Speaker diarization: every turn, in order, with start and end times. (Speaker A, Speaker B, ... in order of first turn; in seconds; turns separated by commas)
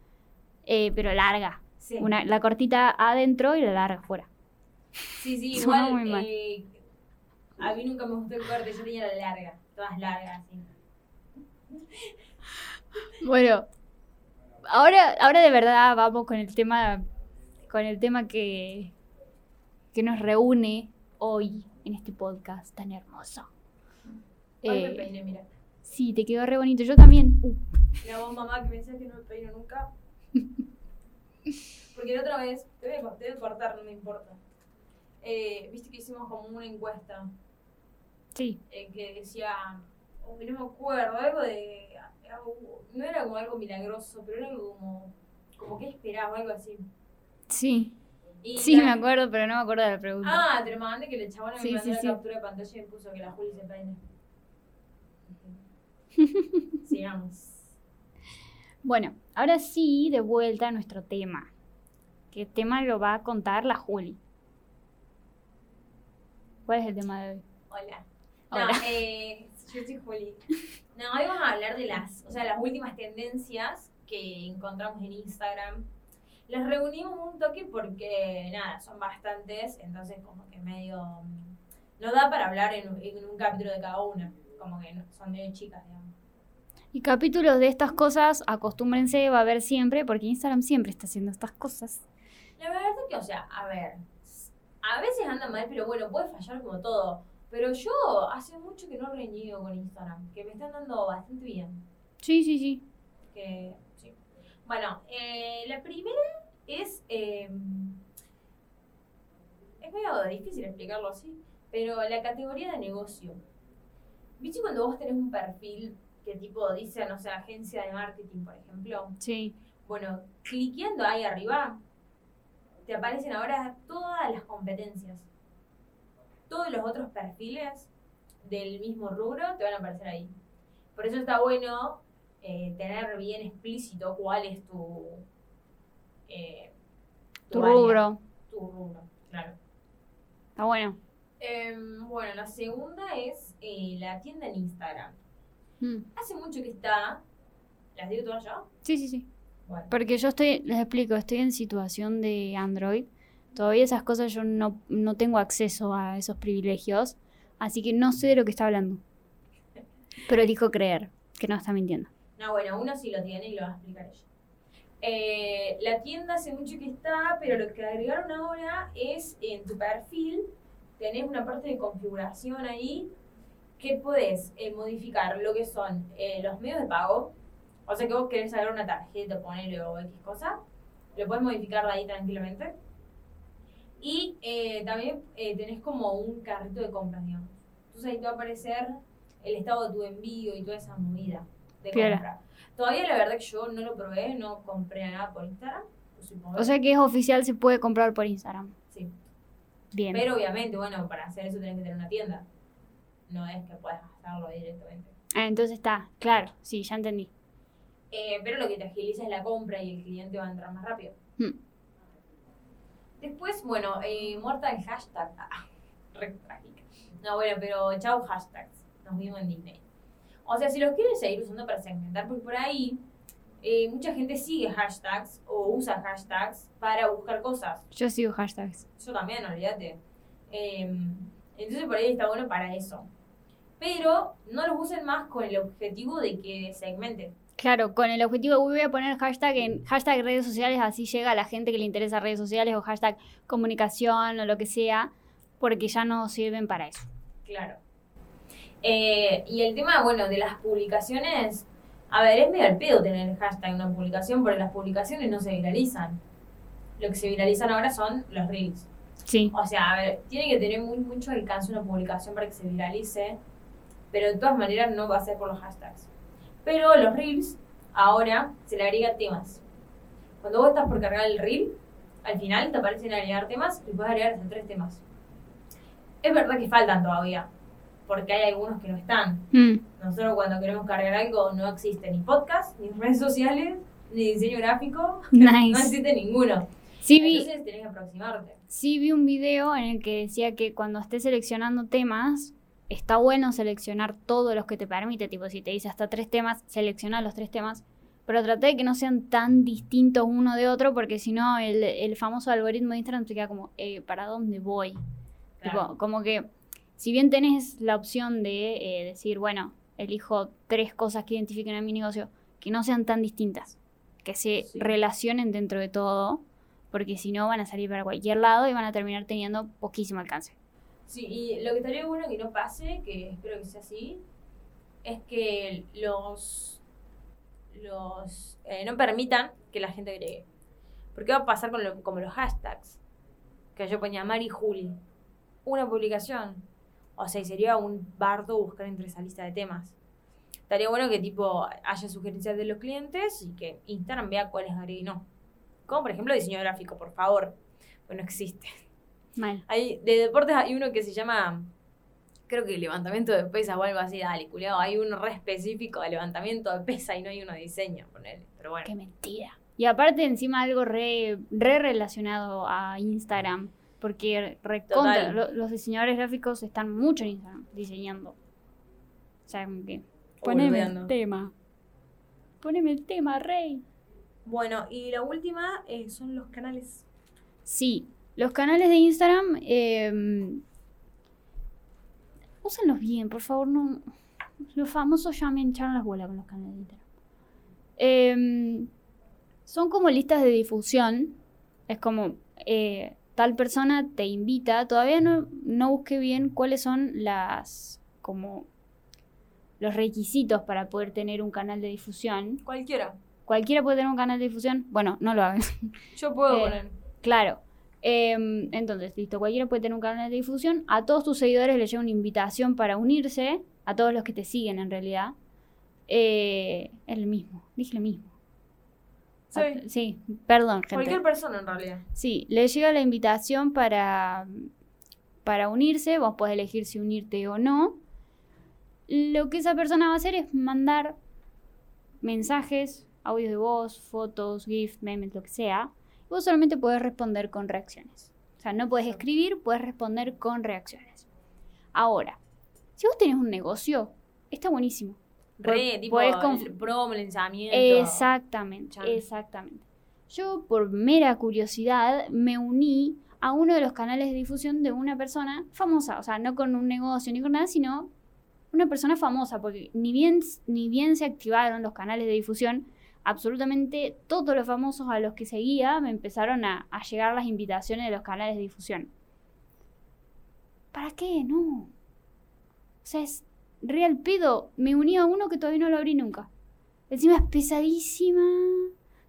Speaker A: 0.7-4.3, Speaker B: 1.8-2.1, Speaker B: 5.1-6.8, Speaker A: 5.5-6.3, Speaker B: 7.6-10.7, Speaker A: 13.2-13.7, Speaker A: 14.7-17.0, Speaker A: 17.7-18.9, Speaker A: 19.9-23.5, Speaker A: 24.6-25.1, Speaker B: 24.6-25.5, Speaker A: 25.8-27.6, Speaker B: 28.0-29.9, Speaker B: 31.9-34.4, Speaker B: 35.2-37.3, Speaker B: 38.7-46.9, Speaker A: 47.5-47.9, Speaker B: 48.4-49.0, Speaker A: 48.6-50.4, Speaker B: 50.2-54.0, Speaker A: 51.6-52.2, Speaker B: 55.3-55.6, Speaker A: 56.2-56.7, Speaker B: 56.8-57.7, Speaker A: 58.8-61.5, Speaker A: 62.3-64.2, Speaker A: 66.7-67.4, Speaker B: 67.7-75.8, Speaker A: 68.5-68.8, Speaker B: 76.5-86.1, Speaker A: 86.9-92.0, Speaker B: 92.6-101.8, Speaker A: 102.2-102.8, Speaker B: 103.3-108.0, Speaker B: 109.8-113.4, Speaker B: 114.4-119.2, Speaker A: 119.2-119.5, Speaker B: 119.8-121.8, Speaker B: 122.8-125.3, Speaker B: 126.5-127.9, Speaker B: 128.4-130.3, Speaker B: 130.9-135.2, Speaker B: 136.3-136.7, Speaker B: 137.5-139.6, Speaker A: 137.5-138.2, Speaker A: 140.6-141.0, Speaker B: 141.4-145.2, Speaker A: 145.8-146.1, Speaker B: 146.1-147.2, Speaker B: 147.9-148.7, Speaker A: 148.8-149.3, Speaker B: 149.7-149.9, Speaker A: 149.9-159.0, Speaker A: 160.2-162.1, Speaker B: 162.4-164.2, Speaker B: 165.0-173.1, Speaker B: 173.8-177.3, Speaker B: 177.9-180.6, Speaker B: 181.1-182.7, Speaker B: 184.0-196.7, Speaker A: 191.9-192.2, Speaker A: 196.6-198.7, Speaker B: 198.9-199.2, Speaker A: 199.9-200.2, Speaker B: 200.1-202.4, Speaker B: 203.3-205.1, Speaker A: 205.3-207.3, Speaker B: 208.1-211.2, Speaker B: 213.2-219.8, Speaker B: 220.4-223.0, Speaker B: 223.6-227.8, Speaker A: 227.9-228.8, Speaker B: 229.0-233.1, Speaker B: 233.8-237.3, Speaker A: 237.6-247.1, Speaker B: 247.4-247.8, Speaker B: 248.8-256.2, Speaker B: 257.0-258.9, Speaker A: 259.3-259.5, Speaker B: 259.5-263.4, Speaker B: 264.1-266.1, Speaker B: 266.6-269.6, Speaker B: 270.4-275.0, Speaker B: 276.2-277.5, Speaker B: 278.1-288.6, Speaker A: 279.5-279.8, Speaker A: 285.3-285.9, Speaker A: 287.0-287.5, Speaker A: 288.7-305.0, Speaker B: 305.6-305.8, Speaker A: 305.6-320.6, Speaker B: 314.6-314.9, Speaker B: 321.1-324.2, Speaker B: 325.0-326.8, Speaker B: 327.7-330.4, Speaker B: 331.1-333.0, Speaker B: 333.8-335.0, Speaker B: 335.6-336.6, Speaker B: 337.2-339.9, Speaker B: 340.7-345.2, Speaker B: 345.9-348.8, Speaker A: 349.4-349.6, Speaker B: 349.7-351.7, Speaker B: 352.5-358.9, Speaker A: 358.8-368.4, Speaker B: 364.9-365.4, Speaker A: 369.5-371.5, Speaker B: 370.4-371.1, Speaker A: 372.6-373.8, Speaker B: 374.4-377.0, Speaker A: 377.6-380.6, Speaker A: 382.6-384.1, Speaker A: 384.7-387.0, Speaker A: 388.0-388.9, Speaker A: 389.6-398.7, Speaker A: 399.8-402.6, Speaker B: 402.6-403.2, Speaker A: 403.5-406.0, Speaker B: 406.1-406.9, Speaker A: 406.5-415.3, Speaker A: 416.1-418.3, Speaker B: 419.5-419.8, Speaker A: 419.5-421.2, Speaker B: 420.9-422.0, Speaker A: 422.1-424.7, Speaker A: 425.4-428.0, Speaker A: 429.1-431.2, Speaker A: 432.2-441.3, Speaker A: 441.9-442.4, Speaker A: 443.0-446.7, Speaker B: 445.6-448.3, Speaker A: 447.7-458.1, Speaker B: 448.9-449.2, Speaker A: 458.7-469.1, Speaker A: 470.9-471.9, Speaker A: 473.0-476.5, Speaker A: 477.1-478.9